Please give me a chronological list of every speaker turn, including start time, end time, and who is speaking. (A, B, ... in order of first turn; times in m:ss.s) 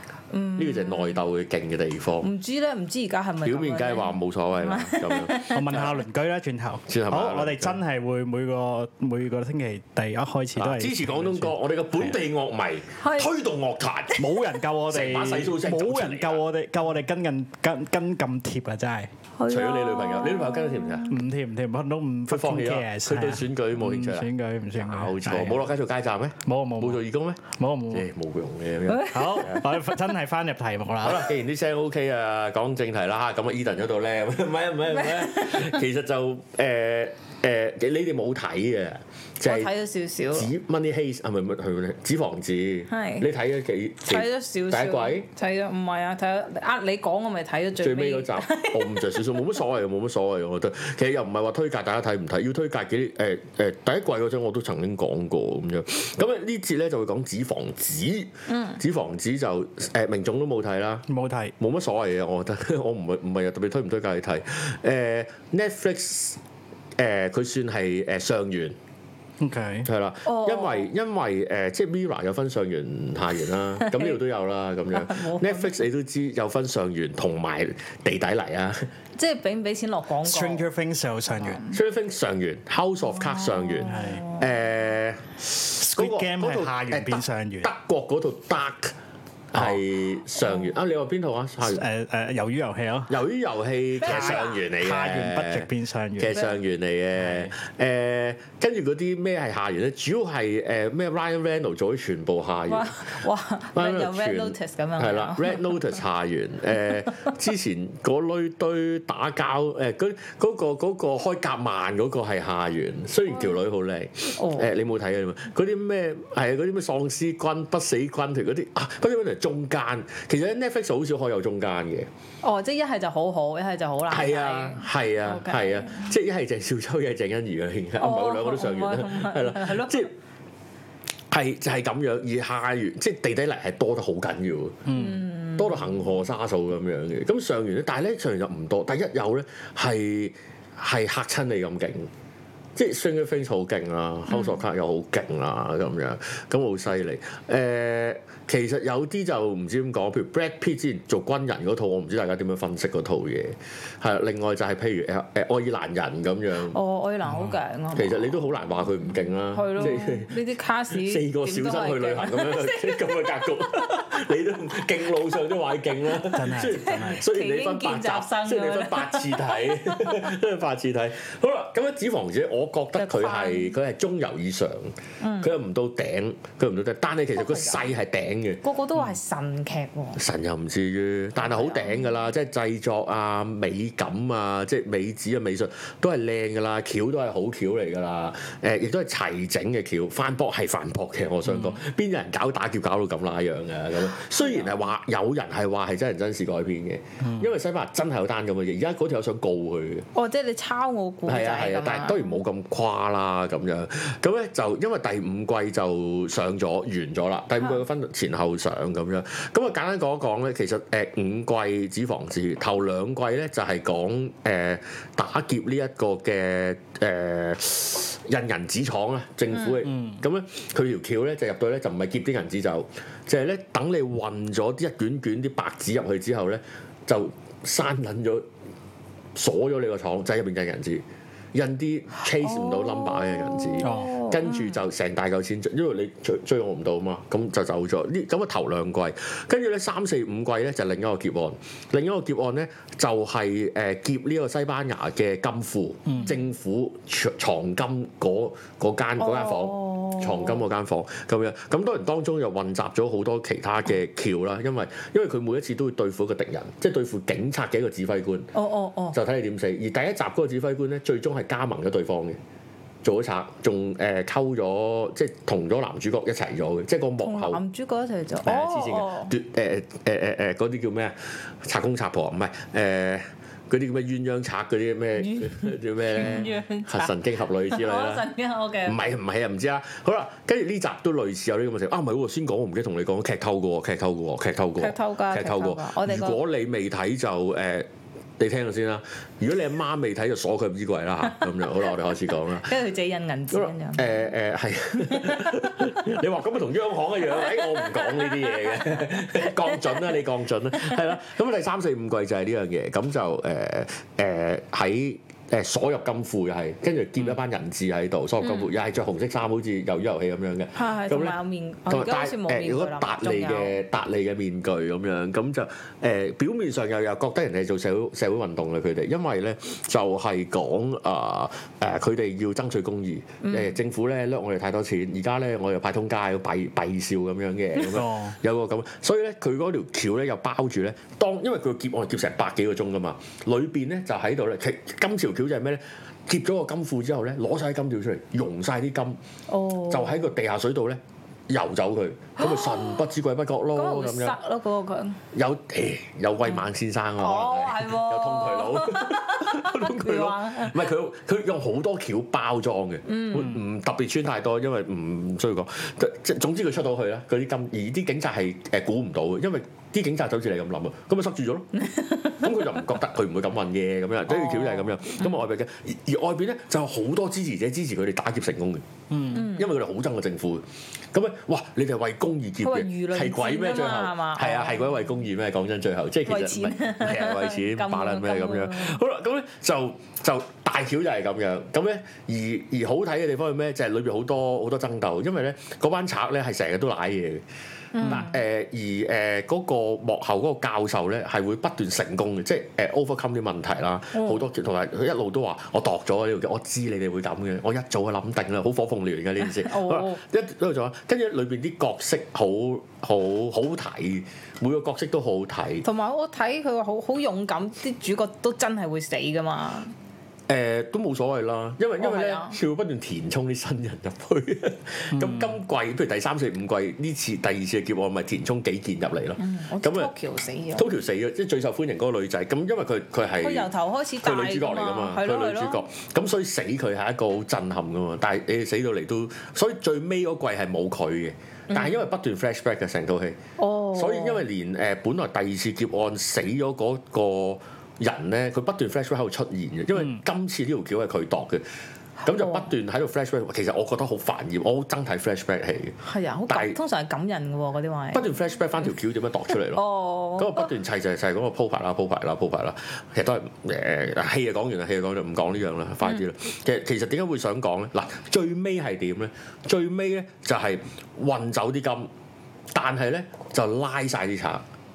0:00.3-0:01.2 A
0:00.6-0:02.3 B
0:02.2-0:05.7 A
0:03.4-0:05.9 B
0:05.5-0:12.1 C
0:06.9-0:07.8 B
0:10.6-0:16.4 B
0:13.0-0:13.3 A
0:14.2-0:19.1 C
0:19.4-0:21.2 A
0:19.5-0:21.1 B
0:21.1-0:25.6 C
0:22.3-0:29.6 B
0:26.4-0:28.1 C
0:28.9-0:29.4 A
0:29.0-0:31.3 C
0:31.0-0:39.7 B
0:35.0-0:35.8 A
0:39.4-0:40.5 A
0:40.3-0:45.3 B
0:42.9-0:43.3 A
0:44.1-0:49.5 A
0:47.8-1:01.0 B
0:58.5-0:58.8 A
1:01.1-1:01.5 C
1:01.6-1:06.4 B
1:07.0-1:08.8 B
1:09.4-1:09.9 C
1:09.8-1:18.9 B
1:10.2-1:10.9 A
1:13.8-1:14.2 A
1:14.9-1:15.8 A
1:19.2-1:20.6 A
1:20.2-1:21.6 C
1:21.4-1:21.8 A
1:21.7-1:28.9 B
1:23.1-1:24.5 A
1:23.8-1:24.2 C
1:25.6-1:27.7 C
1:29.5-1:31.8 B
1:29.5-1:29.8 C
1:31.6-1:33.2 C
1:33.1-1:43.2 B
1:34.0-1:34.6 A
1:34.0-1:36.4 C
1:36.3-1:36.6 A
1:37.2-1:37.5 C
1:42.7-1:45.8 A
1:43.7-2:02.1 B
1:54.4-1:54.7 A
2:02.4-2:06.1 A
2:04.1-2:10.1 B
2:08.0-2:10.1 A
2:11.3-2:14.9 B
2:14.9-2:15.2 C
2:14.9-2:16.0 A
2:15.6-2:22.1 B
2:22.8-2:36.8 B
2:24.3-2:24.6 A
2:36.7-2:38.4 A
2:37.3-2:37.6 C
2:37.9-2:40.3 B
2:39.5-2:43.7 A
2:40.9-2:58.6 B
2:46.3-2:47.2 C
2:46.5-2:50.3 A
2:52.9-2:53.8 A
2:55.2-2:55.5 A
2:57.4-2:57.9 A
2:58.6-3:00.2 A
3:00.2-3:20.0 B
3:01.4-3:02.1 A
3:11.4-3:11.8 C
3:14.4-3:14.8 A
3:17.2-3:17.5 C
3:20.1-3:22.4 A
3:21.2-3:48.4 B
3:39.5-3:39.8 A
3:39.8-3:40.2 C
3:49.4-4:18.5 B
3:52.3-3:54.8 A
3:53.8-3:54.1 C
4:09.2-4:10.6 A
4:18.5-4:19.2 A
4:19.1-4:22.4 B
4:23.0-4:27.6 B
4:27.2-4:29.3 A
4:28.4-4:38.3 B
4:35.2-4:37.1 A
4:37.7-4:39.1 A
4:38.8-4:52.7 B
4:44.8-4:46.4 A
4:52.6-4:54.2 A
4:53.5-5:11.4 B
4:55.0-4:56.1 A
4:57.3-5:00.2 A
5:00.8-5:01.0 A
5:08.4-5:08.7 A
5:10.8-5:13.8 A
5:11.9-5:39.2 B
5:23.4-5:23.8 A
5:27.9-5:28.4 C
5:39.5-5:40.3 A
5:39.9-5:44.4 B
5:42.4-5:43.0 A
5:43.7-5:45.2 A
5:45.3-6:01.7 B
5:47.2-5:50.9 A
5:53.1-5:53.6 A
6:01.8-6:02.4 A
6:02.4-6:27.4 B
6:04.3-6:05.4 A
6:09.1-6:09.5 C
6:09.3-6:09.7 A
6:12.6-6:15.1 A
6:16.3-6:19.0 A
6:27.9-6:28.4 A
6:28.0-6:45.8 B
6:34.1-6:34.5 A
6:39.4-6:40.2 A
6:45.8-6:49.9 A
6:50.5-7:00.1 B
6:52.0-6:52.6 A
6:55.1-6:55.6 C
6:59.4-7:00.9 A
7:00.7-7:03.7 B
7:03.4-7:05.8 A
7:04.2-7:13.4 B
7:11.7-7:12.0 A
7:13.6-7:14.4 A
7:13.9-7:21.6 B
7:22.2-7:22.7 A
7:22.2-7:26.0 B
7:26.0-7:28.2 A
7:26.5-7:26.8 B
7:28.1-7:29.8 B
7:29.7-7:30.7 A
7:30.4-7:42.1 B
7:42.7-7:44.6 B